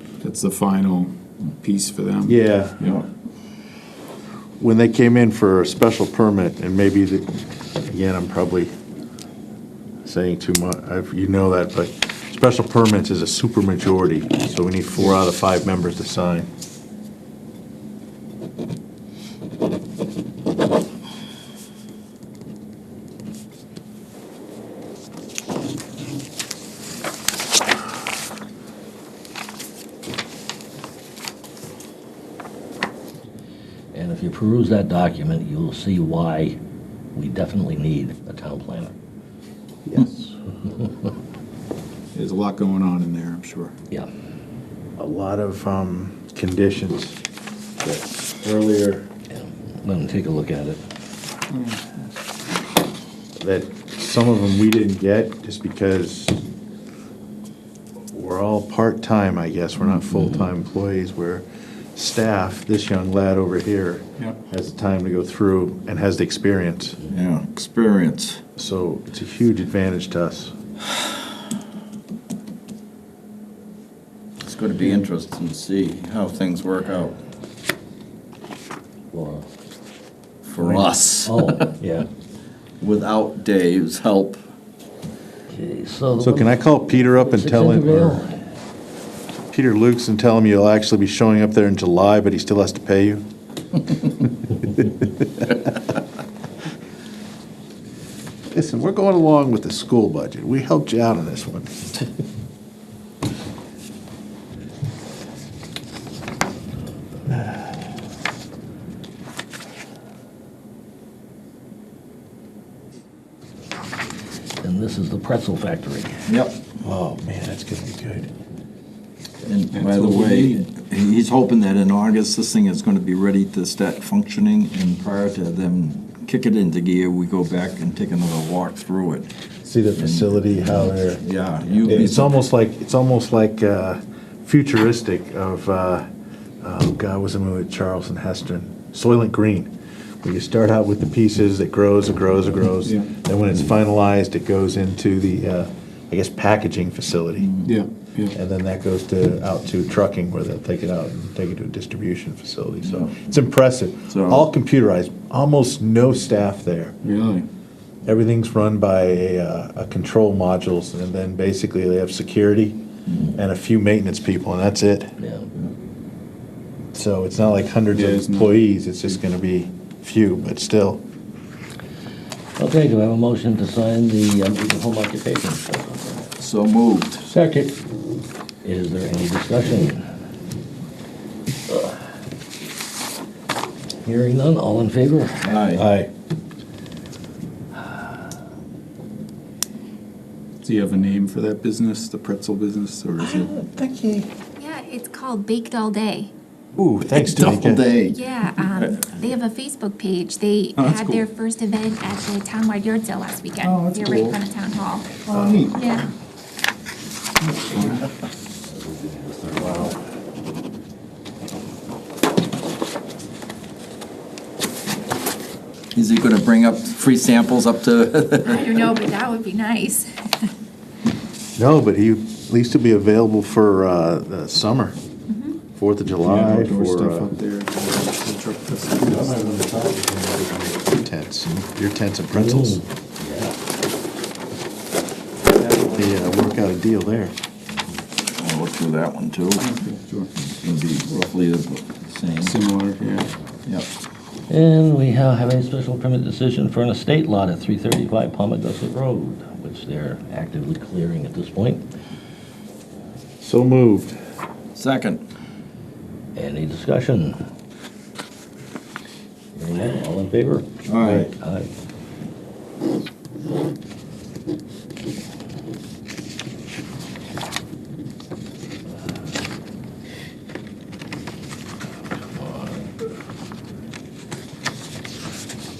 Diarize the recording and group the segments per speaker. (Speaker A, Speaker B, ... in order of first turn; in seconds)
Speaker A: 0.2-3.0, 42.1-43.7, 51.5-51.8, 119.7-120.7, 142.8-143.1, 147.6-148.4, 157.0-157.5, 167.9-168.6, 190.6-193.5, 200.8-201.2, 203.6-204.4, 205.2-205.9, 207.4-208.1, 226.2-229.4, 235.6-235.9, 239.6-240.3, 242.4-243.3
Speaker B: 2.2-2.8, 4.6-8.7, 10.0-16.5, 39.9-40.3, 45.0-47.2, 47.8-49.1, 53.4-56.4, 58.1-67.0, 68.5-70.5, 86.2-88.2, 89.5-93.2, 98.5-102.0, 116.8-118.3, 129.6-131.2, 131.8-136.1, 136.6-147.5, 148.3-156.9, 158.0-162.8, 163.3-165.1, 166.9-171.0, 177.3-177.7, 185.7-186.1, 193.2-194.2, 196.8-197.9, 205.3-205.7, 209.6-209.8, 221.6-225.0, 225.7-227.3, 229.0-232.8, 235.9-237.3, 253.4-254.2, 261.0-261.3
Speaker C: 33.9-36.6, 37.1-38.9, 49.3-50.8, 79.1-79.5, 81.2-82.1, 85.5-88.3, 114.6-116.1, 165.2-165.5, 172.6-176.3, 178.6-180.0, 184.0-185.8, 208.7-209.9, 232.3-233.5, 244.5-251.8, 256.3-257.4, 259.6-261.7
Speaker D: 67.1-68.4, 74.4-77.2, 80.4-81.7, 82.8-84.4, 116.3-116.6, 119.4-129.3, 129.9-132.3, 147.4-147.7, 152.8-153.1, 154.1-154.5, 176.4-177.3, 185.4-185.8, 193.4-193.8, 197.1-198.9, 215.9-218.9, 238.3-239.7, 240.5-242.5, 254.7-255.2, 260.9-261.3
Speaker E: 194.6-196.3, 198.1-205.2, 205.7-206.1, 218.4-220.5, 225.3-225.6